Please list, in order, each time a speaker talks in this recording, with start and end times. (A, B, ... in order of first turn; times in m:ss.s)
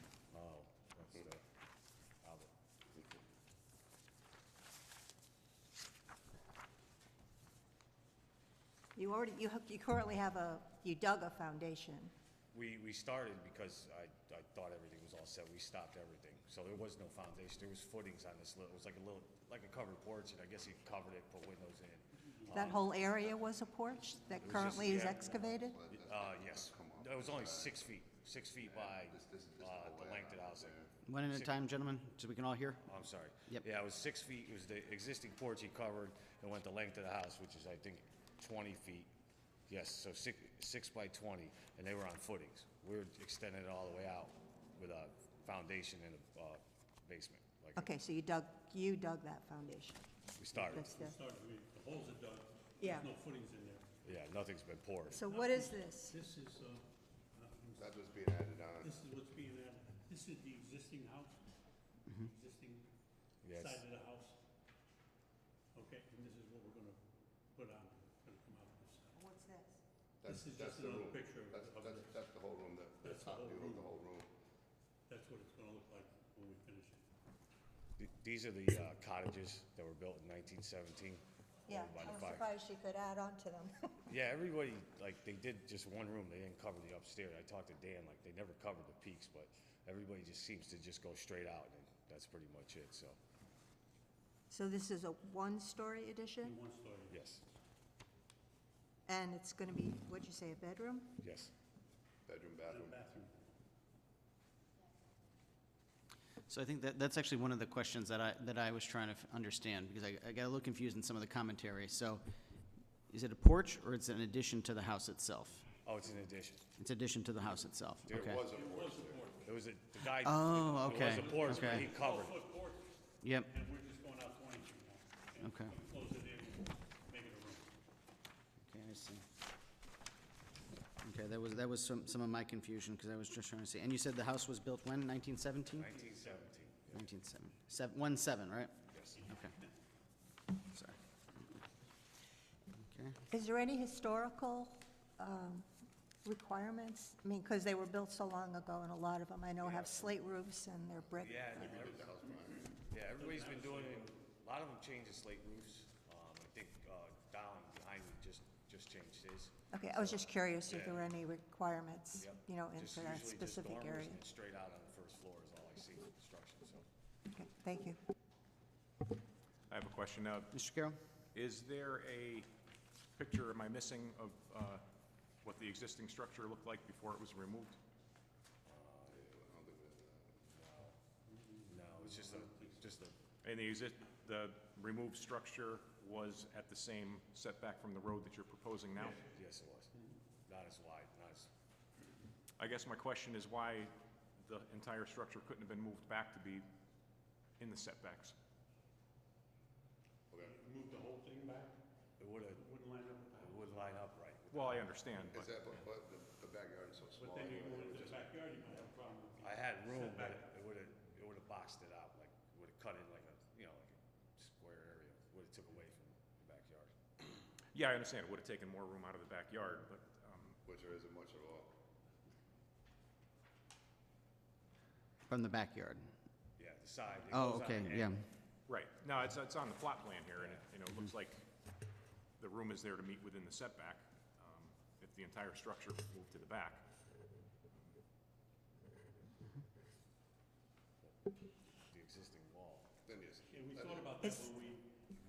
0:00.3-0:01.4 A
0:02.2-0:02.5 A
0:09.0-0:12.1 B
0:12.5-0:22.9 A
0:22.5-0:25.8 B
0:24.4-0:30.7 A
0:25.5-0:27.8 C
0:28.6-0:30.9 C
0:31.0-0:32.8 D
0:31.3-0:31.5 A
0:32.8-0:39.1 A
0:39.7-0:47.9 A
0:47.8-0:50.0 B
0:50.4-0:50.9 A
0:50.5-0:53.9 E
0:50.7-0:51.1 B
0:52.8-0:53.1 B
0:54.0-0:55.2 A
0:55.1-0:56.2 B
0:55.2-1:01.4 E
0:57.8-0:59.0 C
1:02.2-1:02.9 E
1:03.4-1:03.8 A
1:03.5-1:04.4 E
1:05.7-1:07.0 E
1:07.5-1:09.2 E
1:09.2-1:09.8 B
1:10.2-1:14.3 C
1:10.2-1:12.2 E
1:13.0-1:14.0 E
1:15.1-1:17.0 E
1:18.0-1:22.4 A
1:21.7-1:23.9 B
1:24.1-1:33.2 A
1:34.5-1:36.6 B
1:36.4-1:37.2 E
1:37.1-1:37.4 A
1:39.1-1:41.1 B
1:41.2-1:41.5 A
1:42.2-1:43.0 C
1:42.6-1:43.5 E
1:46.5-1:52.2 D
1:53.1-1:55.7 D
1:55.8-1:56.6 A
1:56.8-1:58.4 D
1:58.1-1:59.4 C
1:58.4-1:59.4 E
1:59.4-2:02.3 A
2:00.2-2:01.9 D
2:01.1-2:07.7 E
2:03.2-2:03.5 D
2:05.4-2:05.7 D
2:08.6-2:09.2 D
2:11.0-2:16.0 D
2:15.7-2:17.1 A
2:16.9-2:19.5 D
2:18.9-2:19.2 A
2:20.7-2:21.0 D
2:22.8-2:23.2 D
2:23.3-2:25.7 B
2:26.2-2:31.7 B
2:29.6-2:30.2 A
2:31.2-2:41.1 A
2:31.5-2:32.7 C
2:33.2-2:34.2 E
2:39.7-2:44.2 B
2:42.2-2:46.8 A
2:47.3-2:48.0 B
2:49.7-2:50.5 F
2:50.5-2:51.0 D
2:51.3-2:52.5 F
2:53.2-2:54.8 F
2:55.4-2:57.8 F
2:58.6-2:59.4 A
2:59.2-3:00.4 C
3:00.5-3:01.0 A
3:01.3-3:02.8 E
3:01.6-3:03.2 A
3:03.4-3:09.2 F
3:09.2-3:09.9 A
3:10.4-3:11.5 A
3:12.6-3:16.6 F
3:17.6-3:18.3 F
3:20.4-3:21.8 E
3:22.2-3:22.7 A
3:22.6-3:23.7 E
3:23.4-3:25.0 A
3:24.5-3:25.5 F
3:25.3-3:28.2 C
3:27.1-3:30.5 E
3:29.4-3:36.9 A
3:37.7-3:40.6 F
3:40.6-3:41.7 C
3:45.3-3:46.1 D
3:46.6-3:48.1 A
3:47.3-3:48.2 D
3:48.7-3:51.4 F
3:52.4-3:56.8 F
4:01.9-4:03.0 A
4:03.0-4:04.4 C
4:03.5-4:04.9 E